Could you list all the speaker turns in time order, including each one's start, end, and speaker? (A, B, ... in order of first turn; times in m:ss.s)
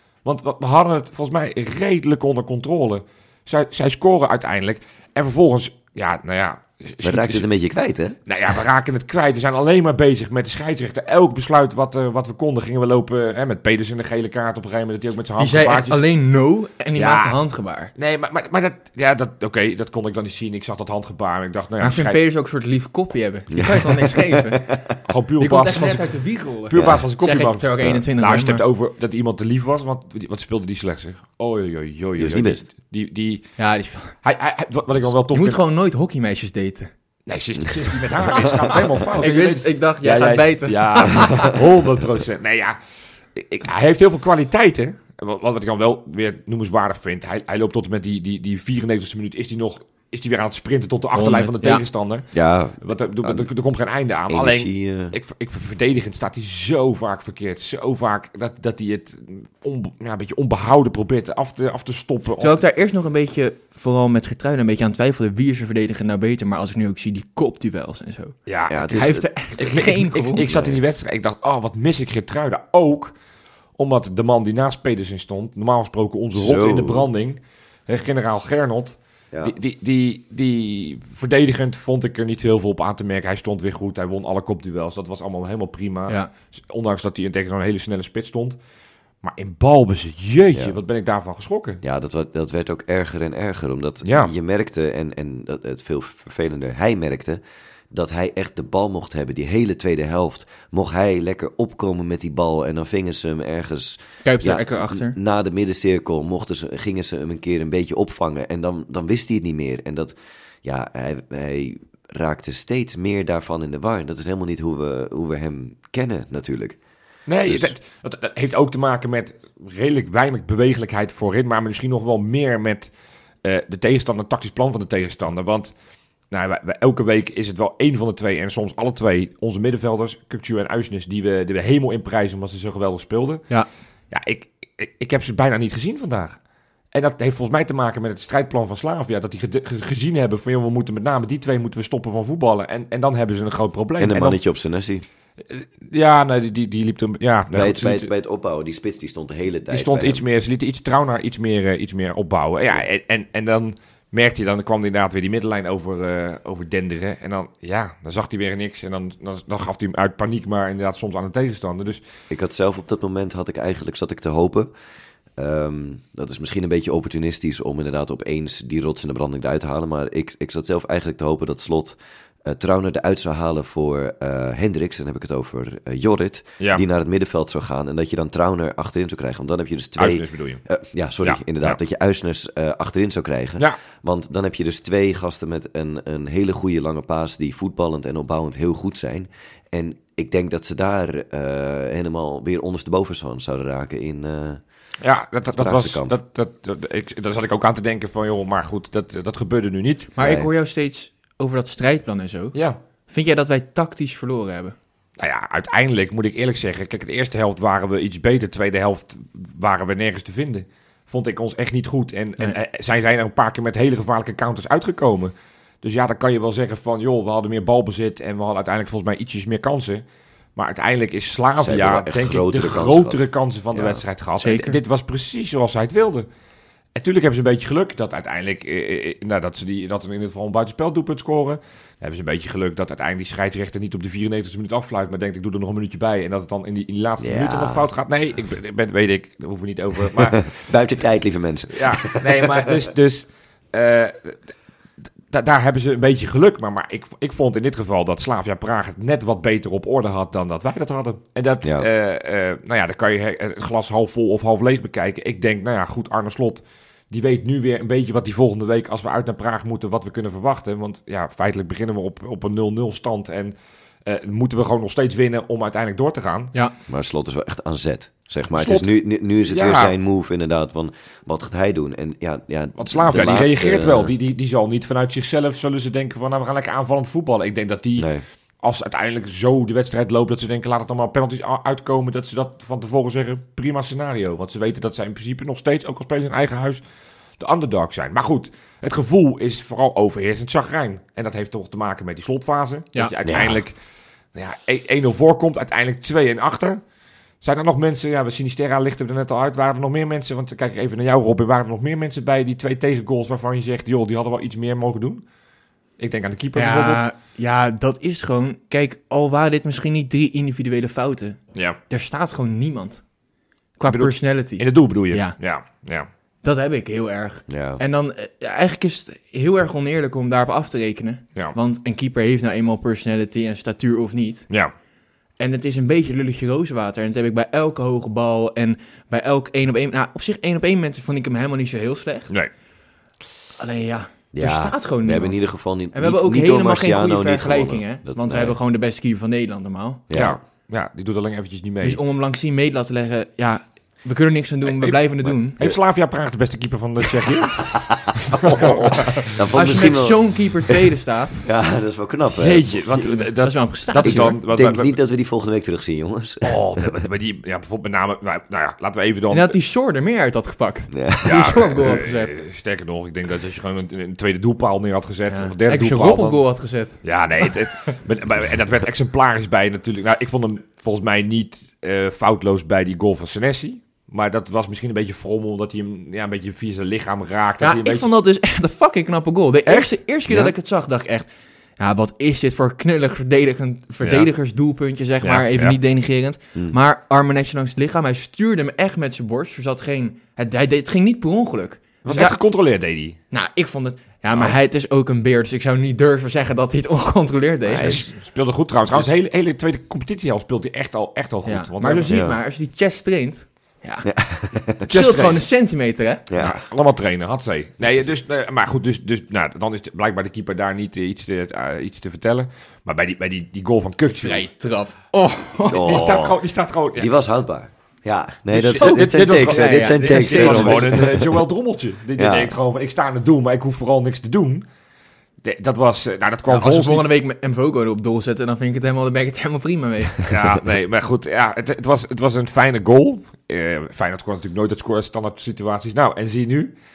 0:00.2-0:07.5 A
0:07.0-0:08.2 B
0:08.3-0:16.0 A
0:15.4-0:17.9 C
0:17.0-0:17.4 A
0:18.0-0:22.2 A
0:21.8-0:24.7 C
0:23.5-0:25.0 B
0:25.1-0:33.5 A
0:25.4-0:28.6 C
0:26.7-0:27.0 B
0:32.2-0:32.7 B
0:33.6-0:34.2 C
0:34.2-0:35.6 A
0:35.3-0:36.9 C
0:37.3-0:42.8 A
0:38.2-0:38.6 B
0:38.5-0:41.6 C
0:43.4-0:52.3 A
0:51.2-0:51.8 C
0:52.3-0:53.5 B
0:52.8-1:02.6 A
0:54.3-0:55.2 B
1:02.4-1:08.4 C
1:08.5-1:13.1 A
1:08.7-1:09.2 B
1:08.9-1:10.4 C
1:10.5-1:10.8 B
1:13.8-1:28.6 A
1:16.4-1:17.1 B
1:29.2-1:31.8 A
1:31.8-1:37.4 B
1:34.0-1:34.3 A
1:37.9-1:56.8 B
1:44.2-1:45.2 C
1:57.3-2:02.9 A
1:57.5-1:57.7 B
2:03.4-2:05.7 A
2:06.3-2:13.5 A
2:14.1-2:16.4 A
2:16.9-2:24.4 A
2:24.0-2:25.0 B
2:25.5-2:28.1 A
2:27.5-2:30.2 B
2:29.7-2:42.0 A
2:42.3-2:44.7 B
2:45.4-3:14.6 B
3:00.0-3:00.6 A
3:01.2-3:01.8 A
3:15.0-3:20.1 A
3:15.6-3:16.2 B
3:20.2-3:22.6 C
3:20.2-3:20.5 B
3:23.1-3:24.8 C
3:25.2-3:40.0 A
3:40.6-3:46.3 A
3:41.6-3:44.0 B
3:44.4-3:44.8 C
3:47.0-4:00.5 A
3:57.2-3:57.9 B
4:00.1-4:02.9 B
4:01.7-4:04.4 A
4:05.3-4:26.5 A
4:11.6-4:11.9 B
4:26.9-4:34.1 B
4:28.5-4:28.9 A
4:29.5-4:29.9 A
4:32.8-4:38.1 A
4:38.0-4:38.2 B
4:38.6-4:46.8 A
4:47.4-4:53.8 A
4:53.2-4:53.6 B
4:54.4-4:56.8 A
4:57.4-5:05.2 A
5:06.0-5:07.1 A
5:06.6-5:13.0 C
5:11.5-5:11.8 A
5:13.8-5:15.4 C
5:13.9-5:16.1 A
5:16.4-5:24.5 C
5:17.5-5:17.8 B
5:25.4-5:32.4 C
5:33.6-5:35.4 C
5:34.3-5:38.6 B
5:35.9-5:40.0 C
5:40.1-5:40.4 B
5:40.1-5:42.0 A
5:41.8-5:45.6 C
5:44.6-5:49.4 A
5:47.6-5:50.8 B
5:49.5-5:51.5 C
5:51.4-5:53.1 B
5:52.4-5:55.0 A
5:53.4-5:54.4 C
5:54.0-5:56.6 B
5:56.4-5:59.6 A
5:59.3-6:02.3 C
6:00.9-6:01.6 B
6:01.2-6:06.4 A
6:05.3-6:07.5 C
6:07.0-6:18.1 A
6:17.6-6:21.3 C
6:19.7-6:20.0 A
6:21.8-6:32.4 C
6:24.0-6:24.3 A
6:25.2-6:25.8 A
6:32.0-6:33.2 A
6:33.3-6:38.1 C
6:37.7-6:38.1 B
6:37.8-6:42.1 A
6:41.5-6:44.1 C
6:42.1-6:42.4 B
6:44.0-6:44.9 B
6:44.9-6:46.3 C
6:44.9-6:45.4 A
6:46.3-6:46.6 B
6:46.4-6:54.5 A
6:54.2-6:56.0 C
6:55.7-6:56.4 B
6:55.7-6:57.1 A
6:57.0-7:01.5 B
6:58.5-7:04.7 A
6:58.8-7:01.0 C
7:02.2-7:02.6 B
7:05.4-7:07.1 A
7:06.5-7:10.2 C
7:10.2-7:16.8 A